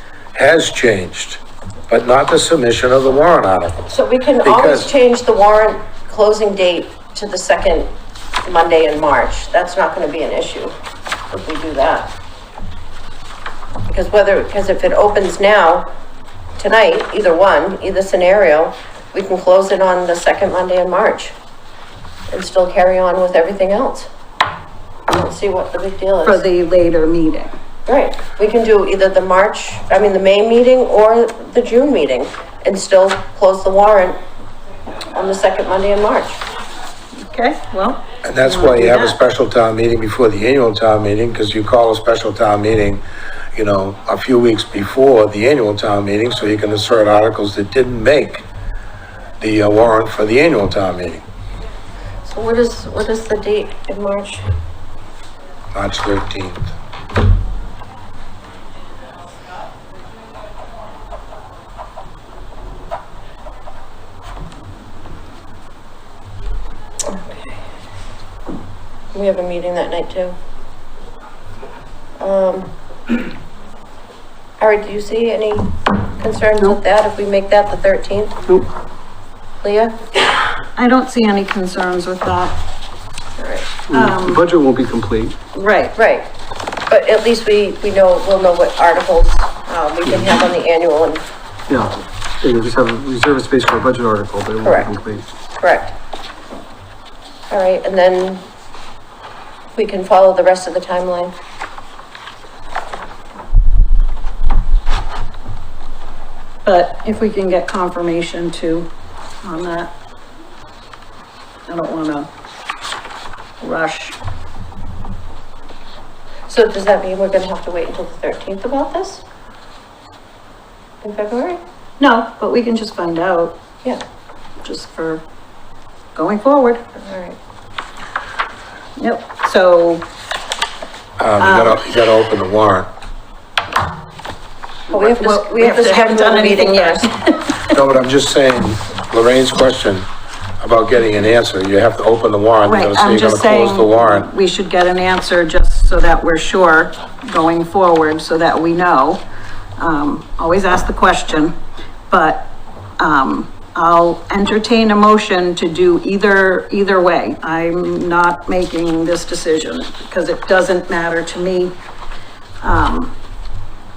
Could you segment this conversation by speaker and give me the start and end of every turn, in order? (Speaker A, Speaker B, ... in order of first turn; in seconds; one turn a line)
Speaker A: 0.3-4.9
Speaker B: 3.9-7.9
Speaker B: 8.4-10.7
Speaker B: 11.3-12.1
Speaker B: 13.9-15.9
Speaker B: 16.6-21.3
Speaker B: 22.3-24.1
Speaker B: 25.1-26.4
Speaker C: 26.2-27.5
Speaker B: 27.9-34.2
Speaker B: 35.1-36.4
Speaker C: 37.2-39.2
Speaker A: 38.2-43.0
Speaker A: 43.5-48.5
Speaker A: 49.4-51.2
Speaker B: 52.2-54.4
Speaker A: 55.7-56.7
Speaker B: 67.0-67.6
Speaker B: 69.1-70.3
Speaker B: 72.2-72.7
Speaker B: 74.6-78.4
Speaker B: 79.6-80.0
Speaker C: 80.8-82.6
Speaker B: 83.4-83.7
Speaker D: 83.9-85.4
Speaker C: 83.9-84.4
Speaker C: 85.5-85.9
Speaker B: 85.9-86.3
Speaker B: 86.9-91.2
Speaker D: 90.1-90.3
Speaker D: 91.7-95.2
Speaker B: 94.6-95.0
Speaker B: 95.6-95.9
Speaker B: 97.5-98.4
Speaker B: 99.8-101.3
Speaker C: 106.6-108.9
Speaker C: 109.4-109.9
Speaker C: 111.7-112.3
Speaker C: 113.6-114.2
Speaker B: 116.5-119.2
Speaker B: 121.0-121.6
Speaker C: 122.0-123.6
Speaker C: 124.6-125.2
Speaker C: 126.1-126.8
Speaker B: 127.0-127.4
Speaker C: 129.0-130.1
Speaker A: 131.2-132.9
Speaker C: 131.4-131.8
Speaker B: 134.9-137.1
Speaker C: 134.9-137.8
Speaker A: 137.7-140.1
Speaker A: 140.6-144.3
Speaker C: 142.6-149.2
Speaker C: 149.8-151.5
Speaker C: 152.1-161.8
Speaker C: 162.6-163.1